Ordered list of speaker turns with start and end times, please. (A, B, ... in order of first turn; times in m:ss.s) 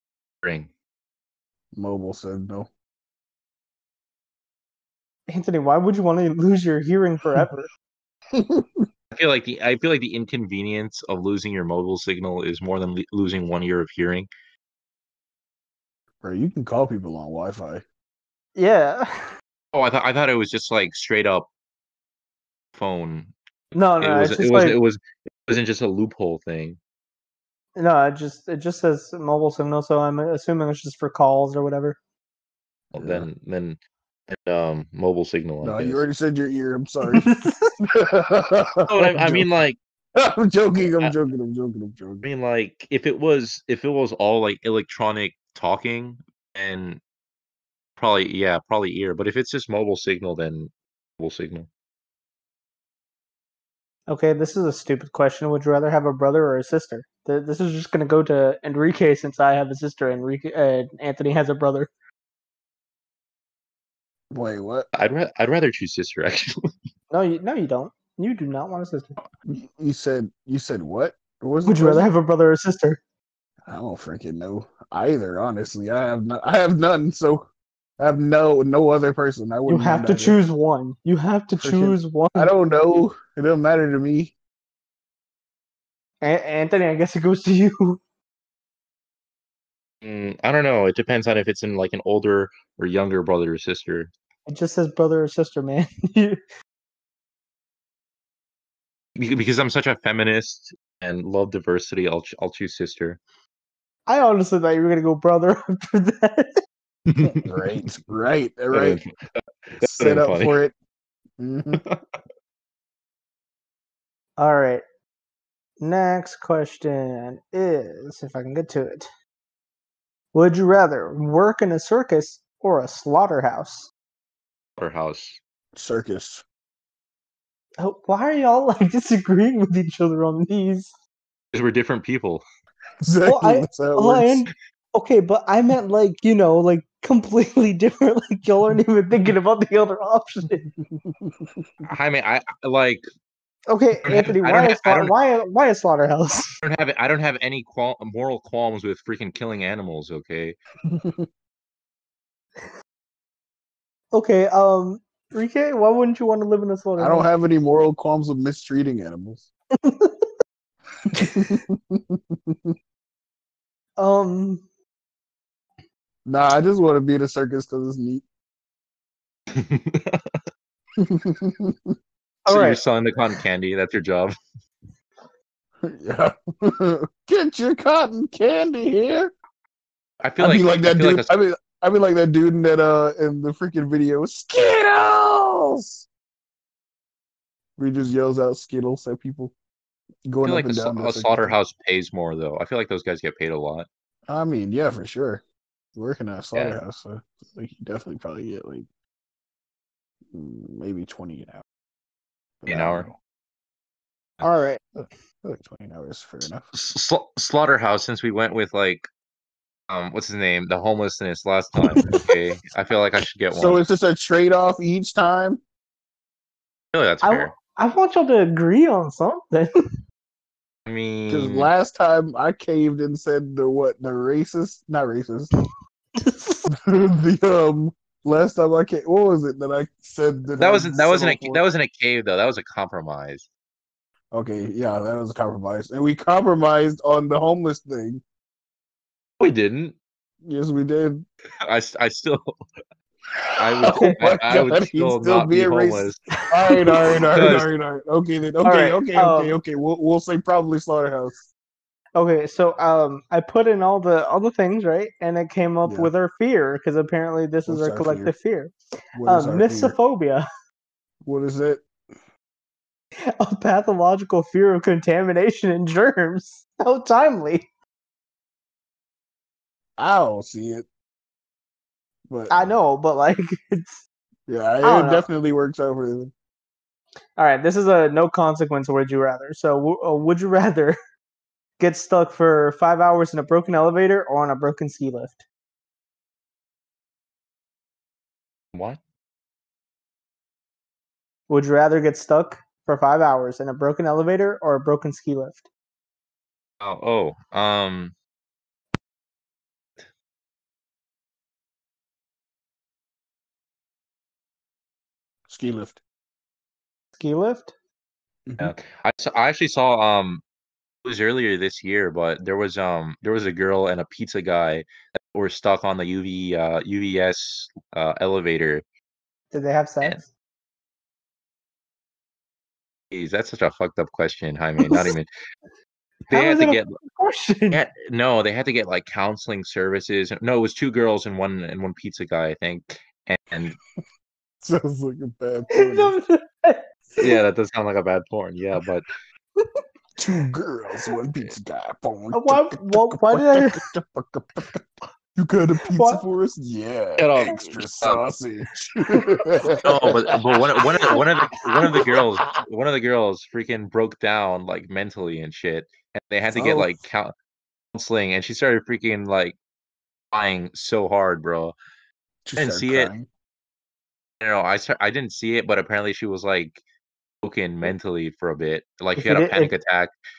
0:00.4-0:00.7 A
0:01.8-0:02.7 B
0:05.3-0:07.7 C
0:08.3-0:08.9 B
0:09.1-0:14.3 A
0:16.2-0:17.8 B
0:18.6-0:19.1 C
0:19.7-0:21.5 A
0:22.8-0:26.8 A
0:23.8-0:24.8 C
0:27.8-0:32.0 C
0:32.9-0:36.0 A
0:33.0-0:33.3 B
0:35.6-0:37.3 B
0:37.1-0:37.7 C
0:37.9-0:39.5 B
0:38.9-0:39.8 A
0:40.2-0:42.2 B
0:40.8-0:41.1 A
0:42.2-0:47.0 A
0:48.0-0:51.7 A
0:54.1-1:01.9 C
1:04.3-1:04.9 B
1:05.0-1:06.6 A
1:07.1-1:09.2 C
1:09.5-1:12.1 B
1:11.7-1:13.0 C
1:13.7-1:17.5 B
1:18.0-1:20.4 B
1:19.7-1:22.5 C
1:21.6-1:24.4 B
1:26.2-1:28.0 C
1:30.0-1:34.1 A
1:34.5-1:36.4 C
1:39.2-1:43.2 A
1:44.1-1:46.5 C
1:47.1-1:47.5 A
1:47.2-1:49.0 B
1:48.7-1:50.6 A
1:49.8-1:50.7 B
1:51.4-1:51.8 B
1:51.7-1:52.2 A
1:54.4-1:54.8 C
1:55.8-1:59.1 C
2:00.3-2:03.9 C
2:04.8-2:05.4 A
2:05.7-2:06.4 B
2:07.8-2:10.9 C
2:11.5-2:12.4 A
2:13.0-2:14.5 B
2:13.2-2:20.7 C
2:20.7-2:21.9 B
2:21.8-2:23.0 A
2:23.7-2:26.5 C
2:24.0-2:25.1 A
2:26.6-2:30.6 A
2:30.8-2:31.3 B
2:34.1-2:37.3 C
2:37.0-2:39.5 B
2:39.8-2:40.3 C
2:41.1-2:42.7 B
2:44.0-2:44.6 C
2:46.3-2:48.2 B
2:49.5-2:50.4 A
2:51.0-2:52.0 B
2:52.5-2:54.4 A
2:52.5-2:52.8 C
2:55.8-2:59.3 B
3:00.2-3:01.3 A
3:00.4-3:06.1 B
3:07.8-3:09.5 B
3:10.3-3:11.6 B
3:10.4-3:13.9 A
3:14.3-3:15.4 B
3:16.0-3:18.9 B
3:20.3-3:21.6 B
3:22.6-3:23.2 B
3:22.7-3:23.1 A
3:24.4-3:24.8 C
3:25.0-3:26.7 B
3:26.7-3:29.1 A
3:29.9-3:33.8 A
3:31.9-3:32.2 C
3:33.5-3:35.6 B
3:36.9-3:37.5 A
3:37.2-3:39.7 C
3:40.9-3:41.7 A
3:41.3-3:45.5 B
3:46.2-3:46.6 C
3:46.7-3:51.6 B
3:50.6-3:53.5 A
3:54.3-3:58.2 B
3:59.4-4:00.0 A
4:00.4-4:01.2 B
4:01.7-4:02.6 A
4:03.5-4:11.4 B
4:03.6-4:06.2 A
4:03.9-4:04.2 C
4:06.4-4:07.6 C
4:07.3-4:07.7 A
4:08.6-4:09.6 C
4:12.2-4:18.7 C
4:15.8-4:16.1 B
4:17.7-4:18.3 B
4:19.2-4:20.0 B
4:19.3-4:20.4 C
4:21.2-4:21.9 B
4:23.4-4:27.7 C
4:30.0-4:30.9 B
4:32.3-4:32.7 B
4:32.5-4:34.0 C
4:34.5-4:36.3 B
4:34.8-4:35.3 C
4:37.4-4:41.0 C
4:41.8-4:45.4 C
4:48.7-4:49.0 A
4:51.5-4:55.7 C
4:56.8-4:58.1 A
5:05.5-5:06.0 B
5:07.2-5:07.7 C
5:08.5-5:08.7 B
5:08.6-5:10.4 A
5:11.0-5:18.8 A
5:19.5-5:20.3 C
5:23.1-5:25.3 A
5:24.8-5:25.1 C
5:26.3-5:27.8 C
5:26.3-5:26.9 A
5:27.7-5:33.8 A
5:34.6-5:36.2 B
5:35.7-5:37.3 C
5:37.2-5:39.1 A
5:40.2-5:44.8 B
5:42.3-5:43.8 C
5:45.4-5:51.3 B
5:45.9-5:46.2 C
5:47.2-5:48.2 A
5:49.8-5:57.3 A
5:51.8-5:52.3 B
5:56.5-5:57.0 B
5:57.9-5:59.6 A
6:00.3-6:01.8 A
6:02.4-6:03.3 B
6:02.6-6:03.1 A
6:04.4-6:06.8 A
6:07.4-6:10.2 A
6:09.2-6:09.7 C